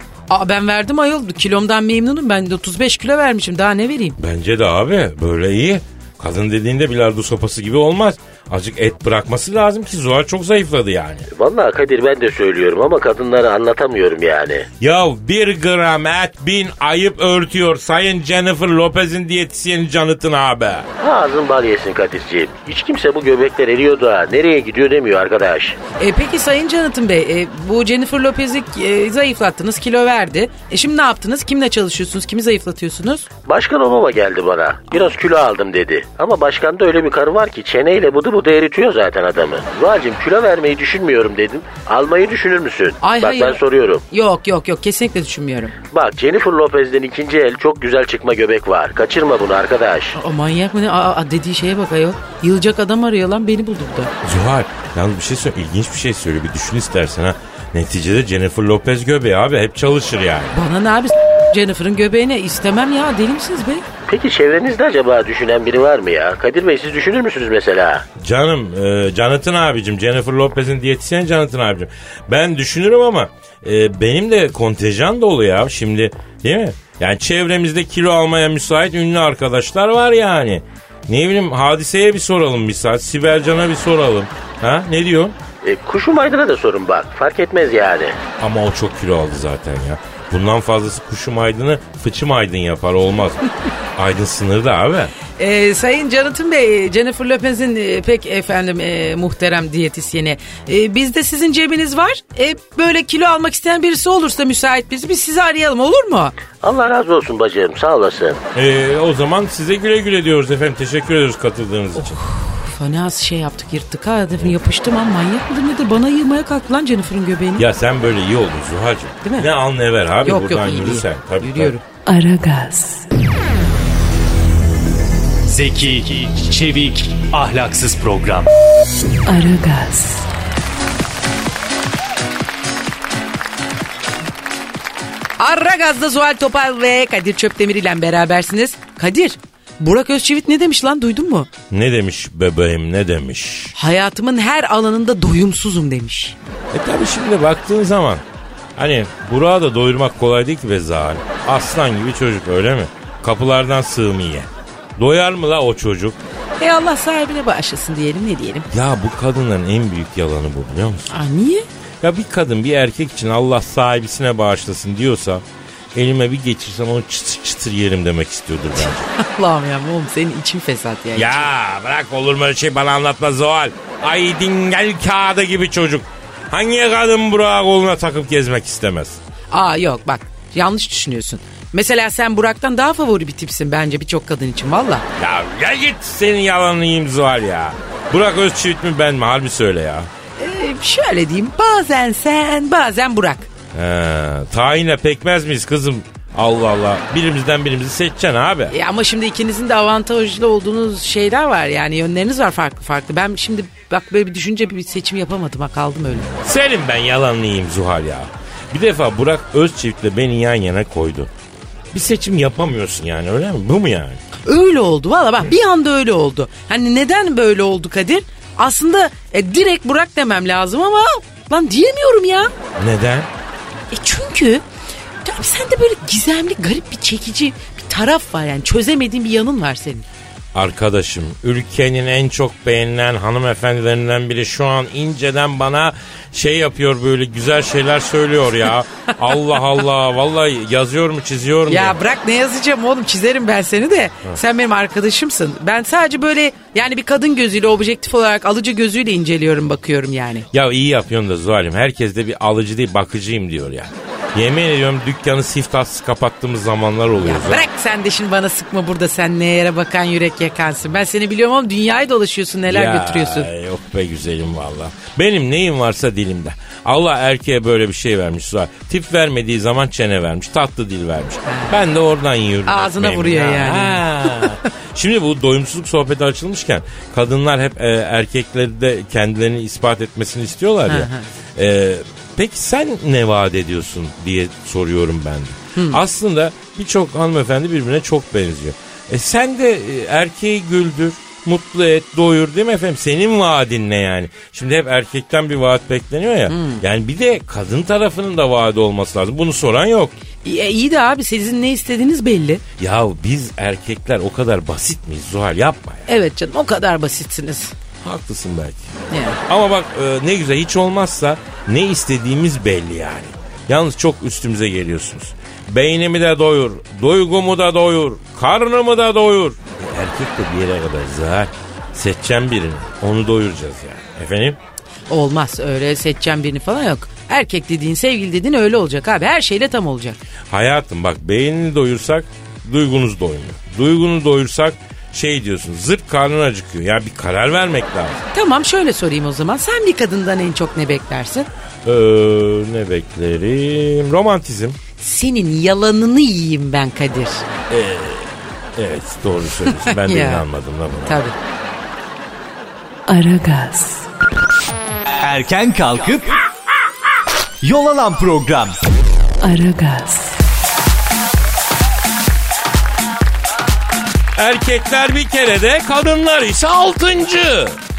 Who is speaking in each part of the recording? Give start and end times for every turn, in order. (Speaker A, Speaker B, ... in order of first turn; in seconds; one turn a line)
Speaker A: 0.3-4.2
Speaker B: 4.2-11.3
Speaker C: 11.3-14.7
Speaker B: 14.8-20.9
Speaker C: 21.0-25.8
Speaker A: 26.0-33.3
Speaker C: 33.5-44.0
Speaker A: 43.0-45.7
Speaker C: 45.9-50.2
Speaker A: 50.1-54.1
Speaker B: 54.2-60.5
Speaker A: 60.5-63.9
Speaker C: 64.1-68.1
Speaker B: 68.2-85.4
Speaker C: 85.6-88.2
Speaker B: 88.4-95.1
Speaker A: 95.4-106.3
Speaker C: 106.6-108.4
Speaker B: 108.5-112.2
Speaker A: 112.0-117.7
Speaker B: 117.6-121.7
Speaker A: 119.2-119.5
Speaker A: 120.2-121.8
Speaker D: 122.1-123.1
Speaker E: 125.5-128.5
Speaker D: 129.2-130.3
Speaker A: 135.4-141.5
Speaker B: 141.7-143.8
Speaker A: 143.8-146.3
Speaker B: 146.7-148.2
Speaker B: 148.8-156.2
Speaker A: 156.6-158.7
Speaker B: 158.7-161.2
Speaker A: 161.1-161.7
Speaker B: 162.0-169.1
Speaker A: 168.8-171.5
Speaker B: 171.1-179.2
Speaker A: 179.5-185.1
Speaker B: 185.2-190.1
Speaker A: 190.4-193.5
Speaker B: 193.7-198.7
Speaker A: 198.7-206.3
Speaker B: 206.2-211.3
Speaker B: 211.9-214.2
Speaker A: 214.5-222.5
Speaker B: 222.8-223.3
Speaker A: 223.9-224.6
Speaker A: 225.2-230.1
Speaker B: 230.5-242.0
Speaker A: 241.7-250.5
Speaker B: 250.5-257.7
Speaker A: 257.2-263.5
Speaker B: 262.7-300.1
Speaker A: 271.5-271.8
Speaker A: 272.7-274.6
Speaker A: 280.9-281.3
Speaker A: 285.8-286.0
Speaker A: 296.5-296.8
Speaker A: 300.4-302.6
Speaker B: 302.8-306.1
Speaker A: 306.1-307.8
Speaker B: 308.0-308.9
Speaker A: 309.1-309.4
Speaker B: 309.5-324.6
Speaker A: 325.1-330.2
Speaker B: 330.5-338.2
Speaker A: 338.3-341.5
Speaker B: 341.9-344.8
Speaker A: 345.0-347.4
Speaker B: 347.7-351.2
Speaker A: 349.7-350.4
Speaker A: 351.1-351.4
Speaker D: 353.1-354.1
Speaker E: 355.2-356.3
Speaker E: 357.6-358.8
Speaker D: 359.4-360.4
Speaker B: 364.4-367.8